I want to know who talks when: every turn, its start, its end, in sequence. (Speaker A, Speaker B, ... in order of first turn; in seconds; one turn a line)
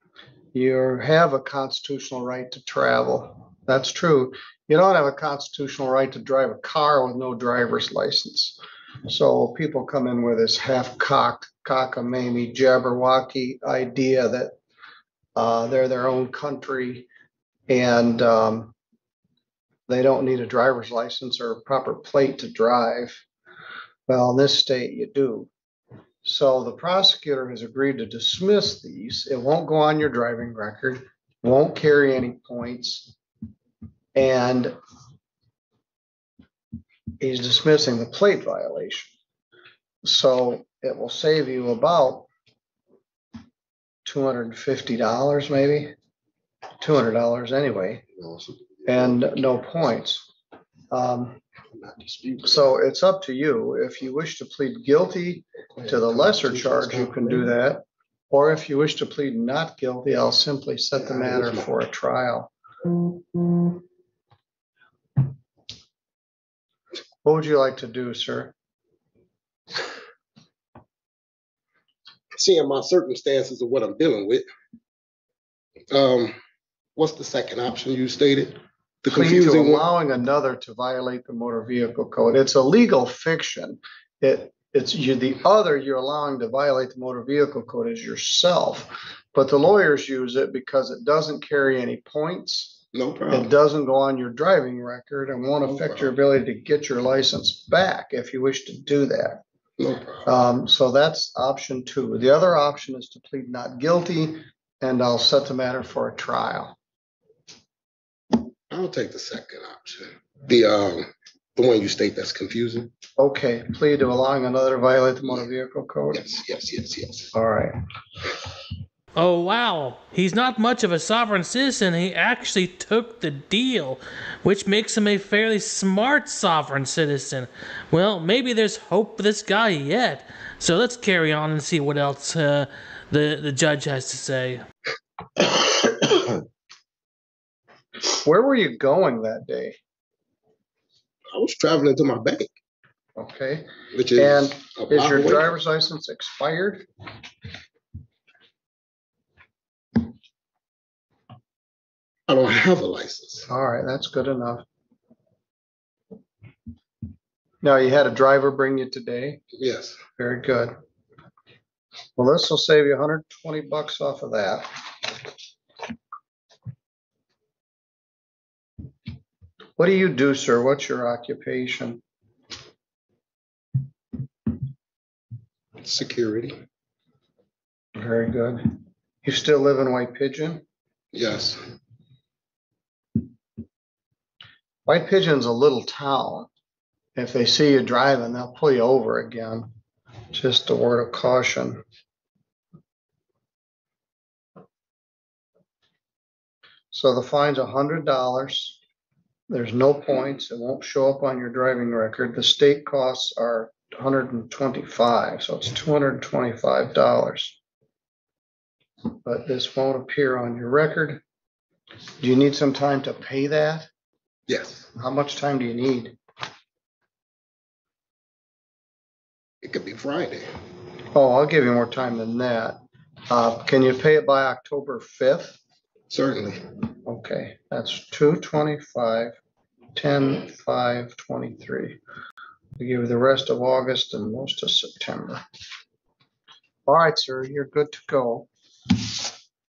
Speaker A: 0.5-14.6
Speaker A: 15.4-17.1
Speaker A: 17.7-18.8
Speaker A: 19.9-23.2
Speaker A: 24.1-25.5
Speaker A: 26.2-33.1
Speaker A: 34.1-34.8
Speaker A: 37.2-39.1
Speaker A: 40.0-42.3
Speaker A: 44.0-45.9
Speaker A: 46.8-48.0
Speaker B: 48.2-49.2
Speaker A: 48.9-50.2
Speaker A: 50.9-51.4
Speaker B: 51.8-52.5
Speaker A: 52.4-62.5
Speaker B: 55.8-57.0
Speaker A: 67.2-68.5
Speaker B: 72.4-74.5
Speaker B: 75.9-76.3
Speaker B: 77.0-79.9
Speaker A: 79.1-99.4
Speaker B: 93.0-93.5
Speaker B: 99.8-100.2
Speaker A: 100.3-106.8
Speaker B: 108.7-112.9
Speaker A: 113.2-116.3
Speaker B: 116.2-117.3
Speaker A: 117.3-117.7
Speaker C: 119.2-134.6
Speaker B: 135.9-136.2
Speaker A: 138.1-139.8
Speaker B: 141.3-142.5
Speaker A: 143.2-146.8
Speaker B: 144.0-145.5
Speaker B: 152.3-153.5
Speaker A: 153.5-154.7
Speaker A: 157.6-159.4
Speaker B: 159.6-160.0
Speaker A: 160.2-160.7
Speaker A: 162.2-164.7
Speaker A: 169.8-172.0
Speaker B: 175.8-176.6
Speaker A: 178.0-180.6
Speaker B: 181.1-181.6
Speaker A: 184.9-186.5
Speaker A: 187.2-189.7
Speaker A: 190.3-191.8
Speaker A: 196.9-198.8
Speaker A: 199.5-207.6
Speaker A: 209.2-211.2
Speaker A: 212.2-213.9
Speaker B: 214.5-214.9
Speaker A: 214.9-216.2
Speaker B: 219.6-220.5
Speaker A: 221.1-222.8
Speaker A: 223.3-225.6
Speaker B: 226.1-226.6
Speaker A: 227.1-229.4
Speaker A: 229.9-232.0
Speaker A: 232.8-235.4
Speaker A: 236.9-238.5